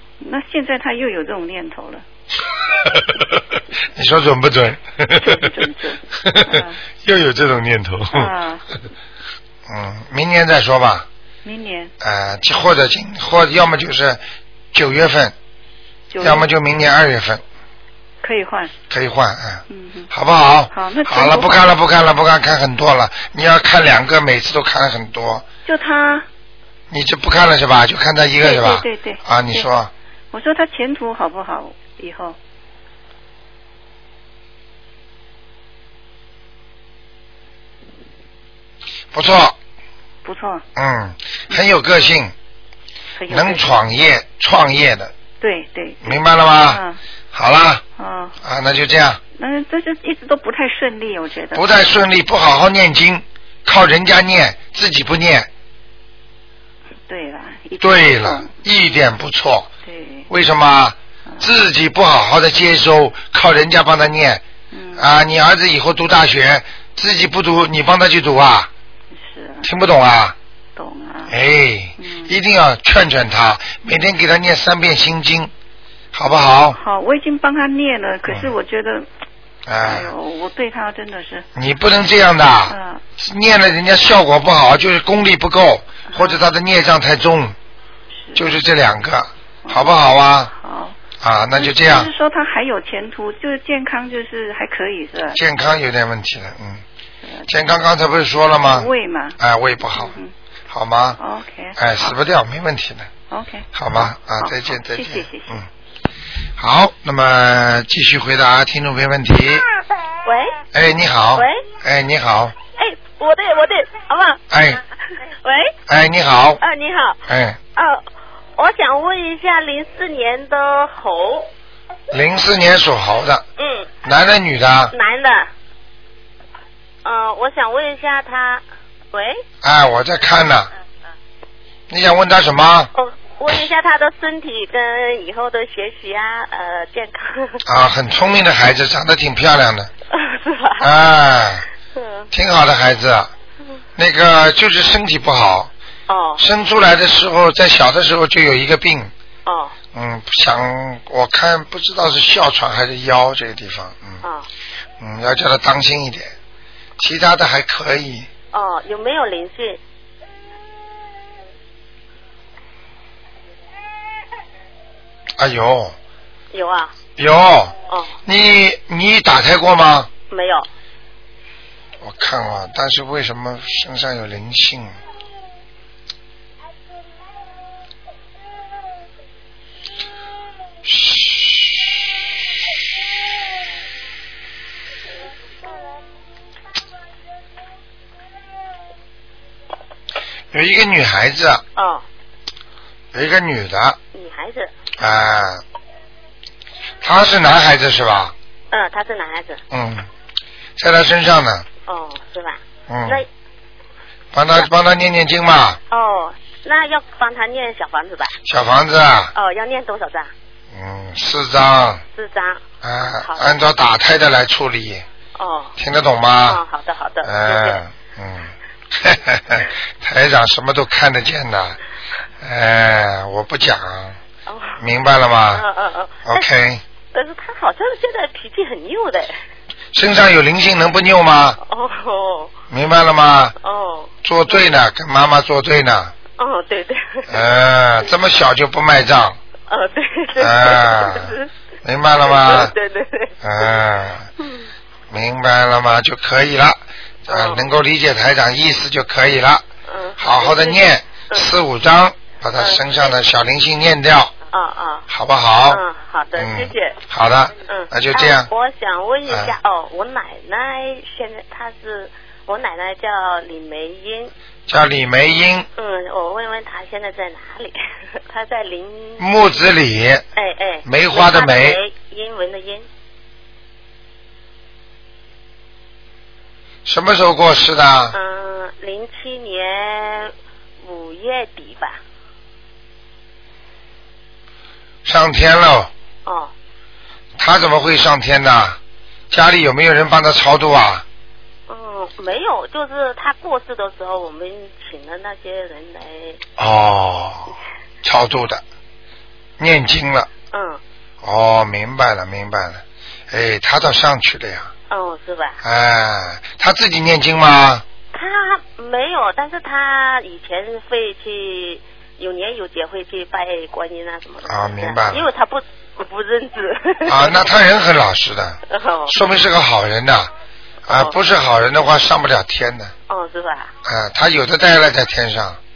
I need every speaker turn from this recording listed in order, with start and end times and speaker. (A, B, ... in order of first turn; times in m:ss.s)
0:00.2-0:02.0 A
0:02.9-0:03.3 B
0:04.0-0:05.5 B
0:05.2-0:06.8 A
0:06.2-0:08.3 B
0:08.1-0:08.6 A
0:09.7-0:11.1 B
0:11.4-0:11.9 A
0:12.0-0:14.2 B
0:14.7-0:15.4 B
0:16.1-0:16.5 A
0:16.2-0:17.4 B
0:18.2-0:18.7 A
0:18.9-0:25.4 B
0:19.7-0:20.1 A
0:20.7-0:21.7 A
0:25.6-0:26.3 A
0:26.9-0:29.9 B
0:28.4-0:29.7 A
0:30.3-0:32.4 A
0:39.1-0:39.6 B
0:40.2-0:40.6 A
0:40.8-0:42.3 B
0:41.5-0:42.1 A
0:43.2-0:43.8 A
0:43.3-0:45.1 B
0:45.4-0:47.0 A
0:46.0-0:46.8 B
0:47.3-0:47.8 B
0:48.0-0:48.4 A
0:48.4-0:49.2 B
0:49.4-0:51.7 A
0:51.6-0:55.5 B
0:57.1-0:58.5 A
0:57.8-0:59.7 B
0:59.8-1:00.3 A
1:00.3-1:04.4 B
1:04.7-1:05.1 A
1:05.0-1:08.7 B
1:09.2-1:09.7 A
1:09.6-1:10.4 B
1:10.8-1:11.4 A
1:11.3-1:15.5 B
1:12.0-1:12.4 A
1:16.1-1:16.8 B
1:16.8-1:19.1 A
1:19.7-1:20.1 B
1:19.8-1:21.5 A
1:21.6-1:27.6 B
1:22.7-1:23.0 A
1:26.1-1:26.4 A
1:28.2-1:28.6 A
1:28.4-1:30.5 B
1:29.6-1:30.0 A
1:30.5-1:31.0 A
1:31.2-1:32.1 B
1:31.5-1:35.4 A
1:35.3-1:36.8 B
1:37.2-1:37.5 A
1:37.5-1:40.1 B
1:38.6-1:39.4 A
1:39.9-1:40.3 A
1:40.7-1:41.2 B
1:41.2-1:42.1 A
1:41.8-1:43.1 B
1:43.3-1:43.7 A
1:43.7-1:45.7 B
1:44.4-1:45.6 A
1:46.6-1:49.7 B
1:50.2-1:50.6 C
1:50.7-1:52.6 B
1:51.4-1:51.7 C
1:52.7-1:54.4 C
1:54.5-1:54.8 B
1:55.3-1:55.8 C
1:55.9-1:56.6 B
1:56.6-1:57.2 C
1:57.3-1:57.6 B
1:57.8-1:58.0 C
1:58.6-2:01.5 C
2:02.1-2:03.4 B
2:03.6-2:03.9 C
2:04.0-2:04.9 B
2:04.9-2:05.5 C
2:07.0-2:09.4 C
2:09.6-2:10.7 B
2:11.9-2:12.9 B
2:12.9-2:17.6 C
2:17.6-2:19.9 B
2:20.1-2:20.9 C
2:20.8-2:21.7 B
2:21.9-2:22.3 C
2:22.3-2:23.3 B
2:24.0-2:25.7 B
2:26.1-2:26.4 C
2:26.4-2:29.1 B
2:29.5-2:29.8 C
2:29.9-2:34.2 B
2:34.2-2:34.5 C
2:35.0-2:36.3 B
2:37.0-2:38.3 B
2:38.5-2:39.8 C
2:45.4-2:46.0 B
2:46.5-2:46.9 C
2:47.2-2:50.1 B
2:47.9-2:48.2 C
2:50.3-2:50.7 C
2:52.0-2:55.0 B
3:00.8-3:01.8 B
3:10.5-3:11.6 B
3:11.8-3:12.0 C
3:13.1-3:14.0 B
3:14.1-3:14.7 C
3:15.0-3:15.6 B
3:17.0-3:18.3 B
3:18.7-3:19.6 C
3:19.7-3:20.1 B
3:20.8-3:21.7 B
3:21.8-3:23.3 C
3:22.9-3:23.2 B
3:24.3-3:25.8 B
3:25.9-3:28.4 C
3:28.4-3:29.3 B
3:29.4-3:30.3 C
3:30.7-3:32.0 B
3:32.2-3:33.6 C
3:32.8-3:35.0 B
3:35.4-3:35.7 C
3:35.8-3:36.6 B
3:36.4-3:37.8 C
3:37.2-3:41.8 B
3:42.4-3:44.2 B
3:44.5-3:44.8 C
3:44.8-3:45.6 B
3:45.5-3:46.5 C
3:46.2-3:46.8 B
3:47.1-3:49.4 C
3:49.9-3:51.6 B
3:51.6-3:52.5 C
3:52.7-3:53.6 B
3:53.6-3:54.8 C
3:54.2-3:56.1 B
3:56.4-3:57.5 C
3:57.3-3:59.4 B
3:59.7-4:01.5 C
4:00.4-4:02.7 B
4:02.2-4:03.8 C
4:03.4-4:04.3 B
4:04.4-4:04.7 C
4:05.1-4:09.6 B
4:07.3-4:07.7 C
4:09.9-4:11.5 C
4:10.2-4:14.3 B
4:12.6-4:13.2 C
4:14.5-4:15.0 C
4:15.1-4:15.8 B
4:15.7-4:17.0 C
4:16.4-4:18.5 B
4:17.6-4:24.3 C
4:19.3-4:19.5 B
4:24.7-4:25.7 B
4:25.8-4:29.6 C
4:29.2-4:30.3 B
4:30.4-4:32.9 C
4:30.8-4:31.8 B
4:36.8-4:38.2 B
4:38.1-4:42.0 C
4:45.0-4:45.9 B
4:46.2-4:46.5 C
4:47.4-4:48.8 B
4:49.3-4:51.0 B
4:51.7-4:56.4 C
4:56.6-4:58.6 B
4:59.6-5:00.3 B
5:00.5-5:00.8 C
5:01.2-5:04.7 B
5:04.9-5:05.6 C
5:05.6-5:07.8 B
5:08.1-5:17.5 C
5:14.5-5:15.3 B
5:17.1-5:20.3 B
5:18.7-5:19.1 C
5:20.9-5:22.9 B
5:20.9-5:21.2 C
5:23.1-5:23.7 C
5:23.8-5:25.6 B